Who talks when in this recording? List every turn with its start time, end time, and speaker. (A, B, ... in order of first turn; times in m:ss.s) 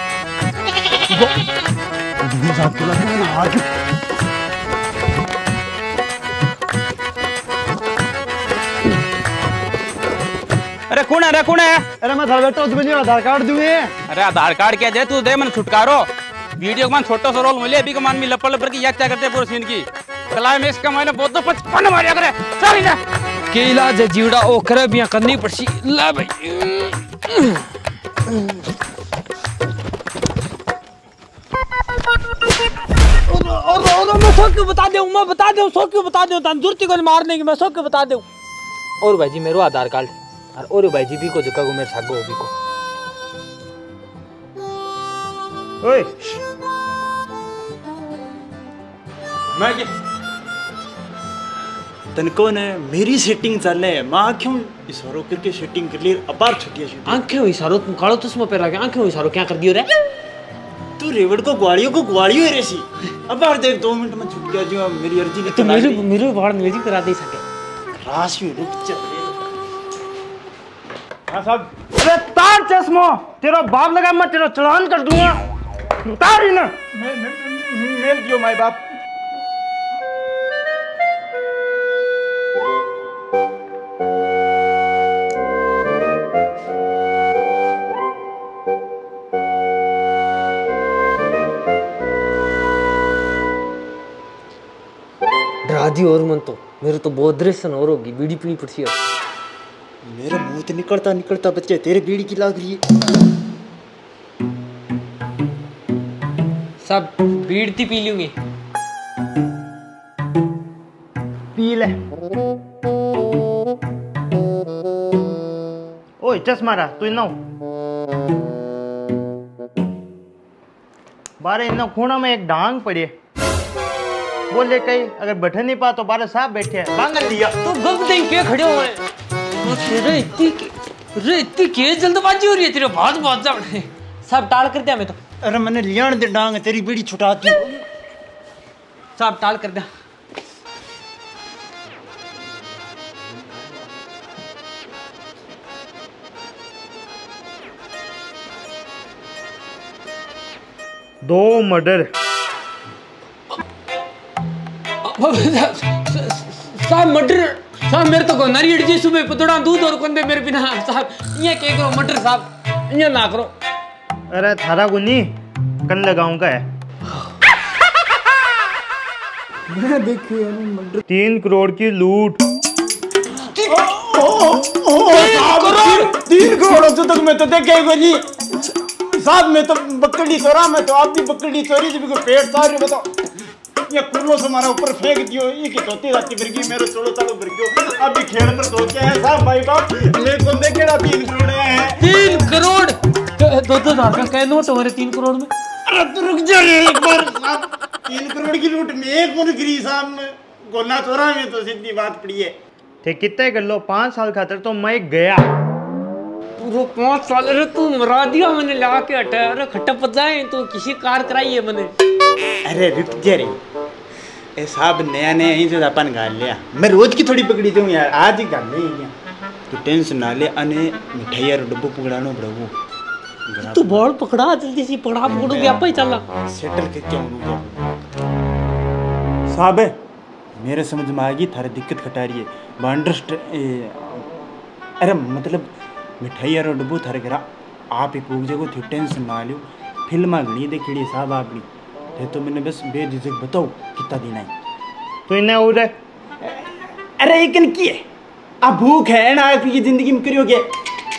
0:02.2-0:03.7 A
0:10.9-0:11.9 B
0:12.0-0:13.9 C
0:14.1-0:16.1 B
0:16.6-0:23.0 B
0:23.5-0:27.7 D
0:28.3-0:28.6 D
0:33.2-0:38.3 D
0:39.0-0:42.5 D
0:45.8-0:46.1 C
0:49.5-0:49.9 A
0:52.1-0:57.2 A
0:57.1-0:59.9 D
1:01.0-1:06.1 A
1:05.4-1:07.4 D
1:08.0-1:09.3 A
1:11.3-1:11.7 A
1:12.0-1:15.4 C
1:16.0-1:16.8 C
1:16.9-1:18.9 A
1:35.6-1:39.0 D
1:40.0-1:42.8 A
1:46.8-1:48.3 D
1:51.6-1:52.0 C
1:56.2-1:57.4 C
2:01.4-2:03.1 C
2:04.5-2:07.6 C
2:07.6-2:09.0 D
2:09.6-2:15.2 D
2:15.4-2:17.6 A
2:19.2-2:19.9 D
2:31.2-2:32.1 C
2:35.0-2:43.5 D
2:44.3-2:46.7 C
2:49.7-2:51.0 A
2:51.1-2:52.4 C
2:53.4-3:03.1 A
2:55.1-2:56.2 D
3:03.9-3:12.0 A
3:12.0-3:15.5 D
3:15.9-3:22.6 A
3:23.0-3:25.5 C
3:26.6-3:31.9 D
3:32.6-3:33.6 A
3:34.6-3:39.1 A
3:39.7-3:42.7 A
3:43.5-3:44.1 A
3:43.6-3:46.2 D
3:45.3-3:45.8 A
3:46.5-3:47.8 A
3:49.5-3:50.0 A
3:50.6-3:54.3 A
3:55.0-4:04.5 A
4:05.3-4:05.9 C
4:06.4-4:08.0 A
4:08.6-4:10.7 A